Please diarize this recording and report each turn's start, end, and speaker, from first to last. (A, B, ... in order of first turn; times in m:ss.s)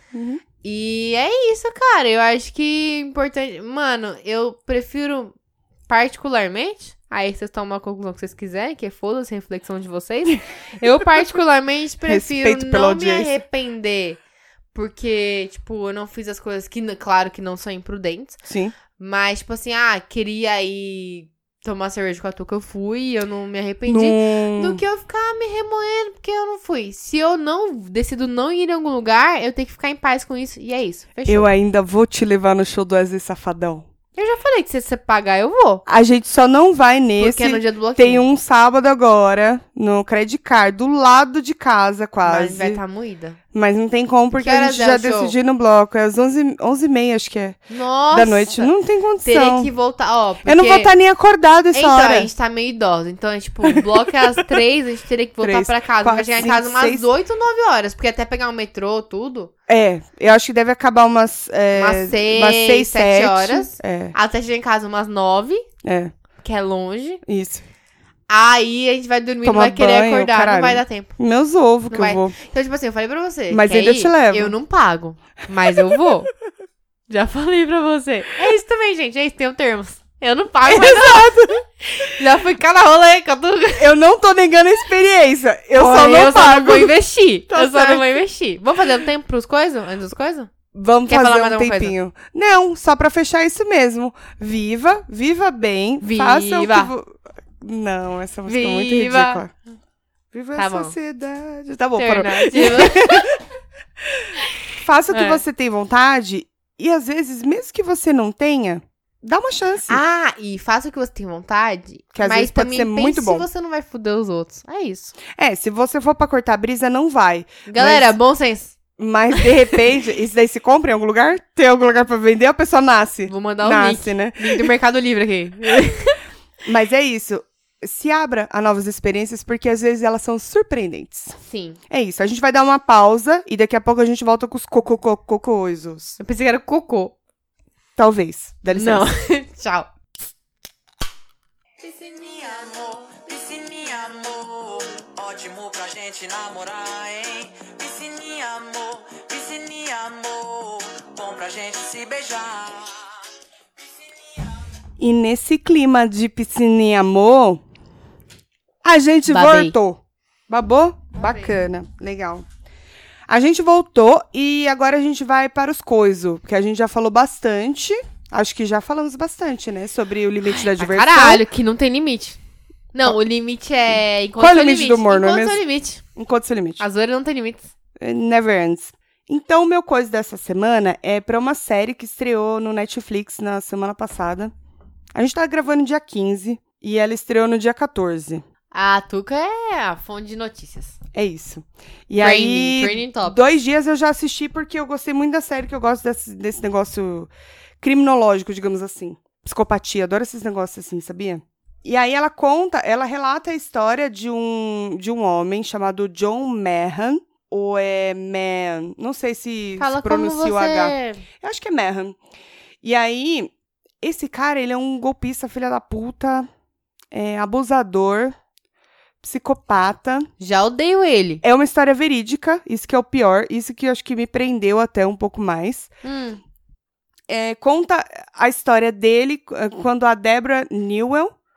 0:00.1-0:00.4 A
0:00.6-0:05.3 B
0:05.9-0:14.2 B
0:12.0-0:13.4 A
0:14.7-0:18.4 B
0:18.5-0:18.7 A
0:19.0-0:31.5 B
0:23.9-0:24.8 A
0:31.3-0:33.8 A
0:34.2-0:35.8 B
0:35.9-0:42.8 A
0:37.2-0:38.2 B
0:42.2-0:43.4 B
0:43.5-0:47.6 A
0:44.3-0:45.3 B
0:47.7-0:48.7 B
0:48.1-0:49.7 A
0:49.2-0:50.9 B
0:50.4-0:52.3 A
0:51.7-0:59.5 B
0:53.6-0:54.6 A
0:55.4-0:57.1 A
0:59.7-1:04.1 A
1:01.7-1:05.6 B
1:05.8-1:06.1 A
1:06.4-1:07.2 B
1:07.2-1:07.6 A
1:08.3-1:11.2 B
1:09.4-1:12.4 A
1:11.9-1:16.3 B
1:13.5-1:14.5 A
1:17.1-1:23.9 B
1:20.6-1:21.6 A
1:23.8-1:26.9 A
1:25.7-1:30.5 B
1:27.5-1:28.2 A
1:30.7-1:39.5 A
1:31.1-1:31.9 B
1:36.0-1:36.9 B
1:38.4-1:39.4 B
1:40.3-1:43.4 A
1:40.5-1:41.0 B
1:42.0-1:43.3 B
1:44.8-1:50.0 A
1:45.1-1:45.4 B
1:49.9-1:55.1 B
1:52.1-1:53.5 A
1:55.3-1:58.2 A
1:57.7-1:58.8 B
1:59.0-2:04.7 A
2:03.3-2:06.2 B
2:06.6-2:11.4 A
2:11.4-2:11.8 B
2:11.9-2:16.2 A
2:16.2-2:17.1 B
2:18.0-2:19.1 A
2:18.7-2:19.9 B
2:21.8-2:33.2 C
2:33.8-2:34.6 C
2:35.0-2:37.6 A
2:38.8-2:42.4 A
2:39.3-2:39.7 B
2:41.2-2:41.5 B
2:43.3-2:51.4 A
2:50.4-2:52.4 B
2:52.9-2:56.0 B
2:54.4-2:55.6 A
2:56.1-2:56.8 A
2:56.8-2:57.7 B
2:58.0-3:04.5 A
3:05.1-3:08.4 A
3:08.7-3:11.0 B
3:11.1-3:17.3 A
3:12.2-3:13.4 B
3:17.8-3:32.2 A
3:29.8-3:31.2 B
3:32.8-3:36.5 A
3:37.1-3:38.3 A
3:39.2-3:40.3 A
3:40.4-3:41.4 B
3:41.4-3:45.9 A
3:46.0-3:46.4 B
3:47.3-3:51.3 A